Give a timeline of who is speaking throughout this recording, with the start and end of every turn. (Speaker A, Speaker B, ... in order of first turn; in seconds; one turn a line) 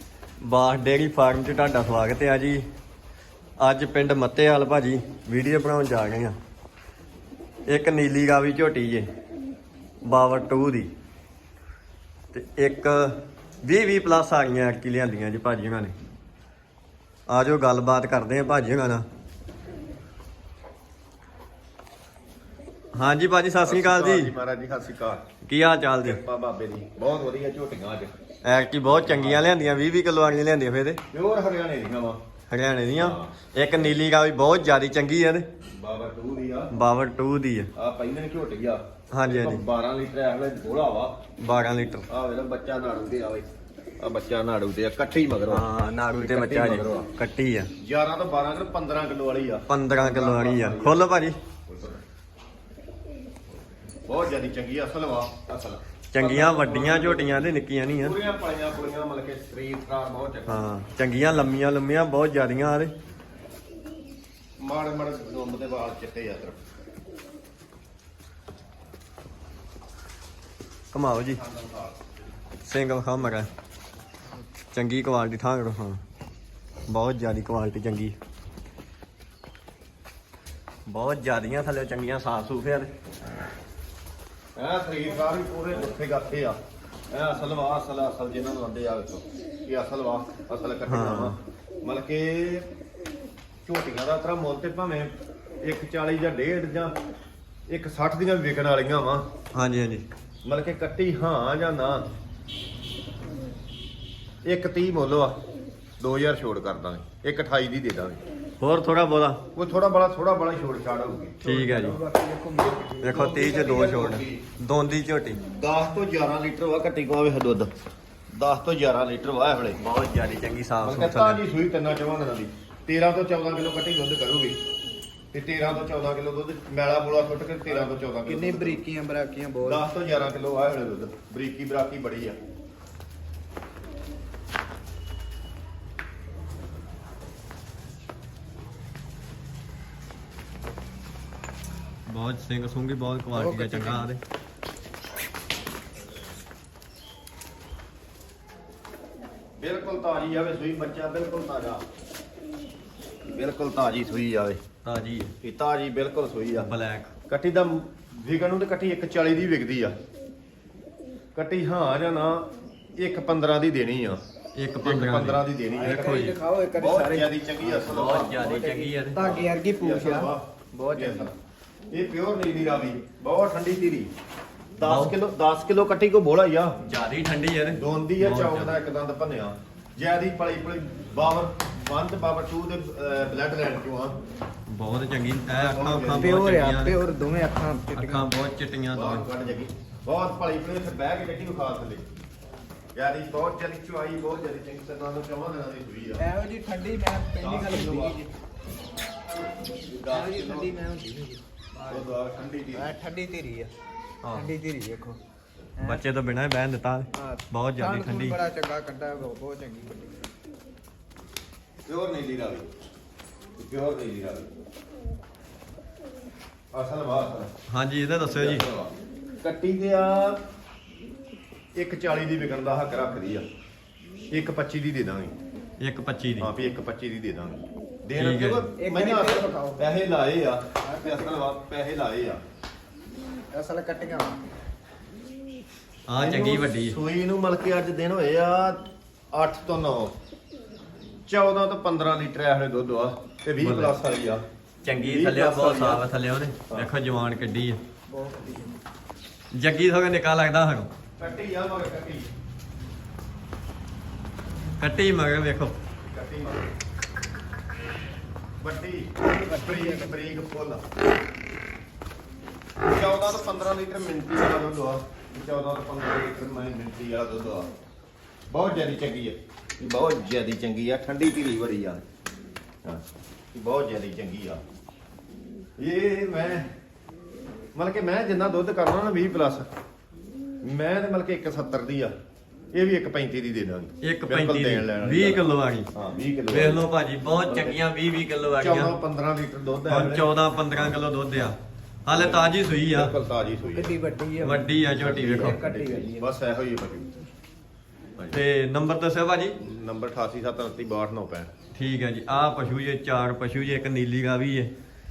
Speaker A: 0.4-2.7
Speaker A: 3.6-6.3
Speaker A: 7.7-9.1
Speaker A: 10.0-10.9
Speaker A: 12.3-15.9
Speaker A: 17.3-19.1
Speaker A: 22.9-24.3
Speaker B: 23.7-25.2
Speaker A: 25.5-26.2
Speaker B: 26.1-28.1
Speaker A: 28.4-31.0
Speaker B: 28.8-29.4
Speaker B: 31.1-32.2
Speaker A: 32.5-35.5
Speaker B: 33.0-33.3
Speaker B: 35.6-36.7
Speaker A: 36.7-37.7
Speaker B: 37.8-41.2
Speaker A: 39.1-39.6
Speaker A: 41.4-42.0
Speaker B: 42.1-43.5
Speaker B: 44.0-47.1
Speaker A: 45.5-47.7
Speaker B: 47.8-51.1
Speaker A: 49.7-51.4
Speaker B: 51.7-52.0
Speaker B: 54.1-57.5
Speaker A: 56.1-58.1
Speaker B: 58.0-60.6
Speaker A: 60.5-62.9
Speaker B: 64.6-66.6
Speaker A: 70.9-71.4
Speaker B: 71.3-72.1
Speaker A: 72.6-73.5
Speaker A: 74.7-76.0
Speaker A: 76.9-78.2
Speaker A: 80.9-82.9
Speaker B: 84.6-86.6
Speaker B: 87.1-92.7
Speaker A: 90.9-91.3
Speaker B: 93.7-96.9
Speaker B: 97.7-99.3
Speaker A: 99.5-100.1
Speaker B: 100.5-102.0
Speaker B: 104.5-105.4
Speaker B: 106.0-108.2
Speaker A: 108.6-109.4
Speaker B: 109.5-111.4
Speaker C: 111.4-113.0
Speaker A: 111.4-112.0
Speaker B: 112.6-114.4
Speaker A: 113.0-115.4
Speaker B: 115.5-117.7
Speaker B: 118.3-119.8
Speaker A: 119.8-121.4
Speaker B: 120.8-124.6
Speaker B: 125.3-128.8
Speaker C: 127.7-129.8
Speaker B: 129.6-132.4
Speaker A: 142.1-144.2
Speaker C: 143.3-144.1
Speaker B: 149.6-151.8
Speaker B: 153.3-154.6
Speaker A: 154.8-155.3
Speaker B: 155.4-156.7
Speaker A: 156.6-157.1
Speaker B: 157.3-159.9
Speaker B: 161.3-164.2
Speaker A: 164.6-166.4
Speaker B: 164.8-166.2
Speaker C: 165.7-171.3
Speaker B: 166.8-168.5
Speaker A: 167.7-169.4
Speaker B: 169.2-171.3
Speaker B: 171.9-174.1
Speaker B: 174.8-176.8
Speaker A: 174.8-175.2
Speaker A: 176.9-178.8
Speaker B: 177.8-184.2
Speaker A: 184.7-187.0
Speaker B: 185.5-186.5
Speaker C: 186.1-188.3
Speaker A: 187.9-189.2
Speaker B: 188.9-192.1
Speaker B: 193.0-196.2
Speaker C: 196.2-198.3
Speaker B: 197.4-198.2
Speaker B: 199.9-200.7
Speaker C: 200.1-202.1
Speaker B: 201.9-202.9
Speaker C: 202.7-203.7
Speaker A: 204.2-204.5
Speaker C: 204.3-205.2
Speaker A: 205.8-208.4
Speaker C: 207.2-210.2
Speaker B: 211.9-212.7
Speaker B: 213.6-214.5
Speaker B: 216.7-217.5
Speaker A: 217.7-218.7
Speaker B: 218.4-220.4
Speaker B: 221.8-223.4
Speaker B: 224.3-225.3
Speaker A: 225.8-226.5
Speaker B: 226.4-232.4
Speaker A: 228.2-228.7
Speaker C: 228.8-229.8
Speaker C: 230.8-231.4
Speaker C: 233.5-234.4
Speaker A: 236.1-237.0
Speaker B: 236.2-240.1
Speaker B: 241.3-244.4
Speaker A: 243.6-244.0
Speaker A: 244.8-247.8
Speaker B: 245.0-246.0
Speaker C: 248.1-248.8
Speaker A: 249.5-250.9
Speaker B: 251.2-252.3
Speaker A: 254.8-255.8
Speaker B: 256.1-256.7
Speaker B: 258.6-260.8
Speaker C: 259.2-260.1
Speaker B: 262.8-267.7
Speaker B: 268.5-272.0
Speaker B: 272.9-274.6
Speaker B: 275.8-276.7
Speaker B: 277.8-279.7
Speaker B: 280.6-282.1
Speaker B: 282.7-286.8
Speaker A: 284.0-285.9
Speaker A: 286.5-288.9
Speaker B: 287.5-287.8
Speaker B: 288.6-291.0
Speaker A: 289.9-293.1
Speaker B: 292.1-294.0
Speaker C: 293.7-296.3
Speaker A: 294.4-295.6
Speaker B: 294.9-297.1
Speaker A: 298.3-299.6
Speaker B: 299.6-301.5
Speaker A: 301.8-304.7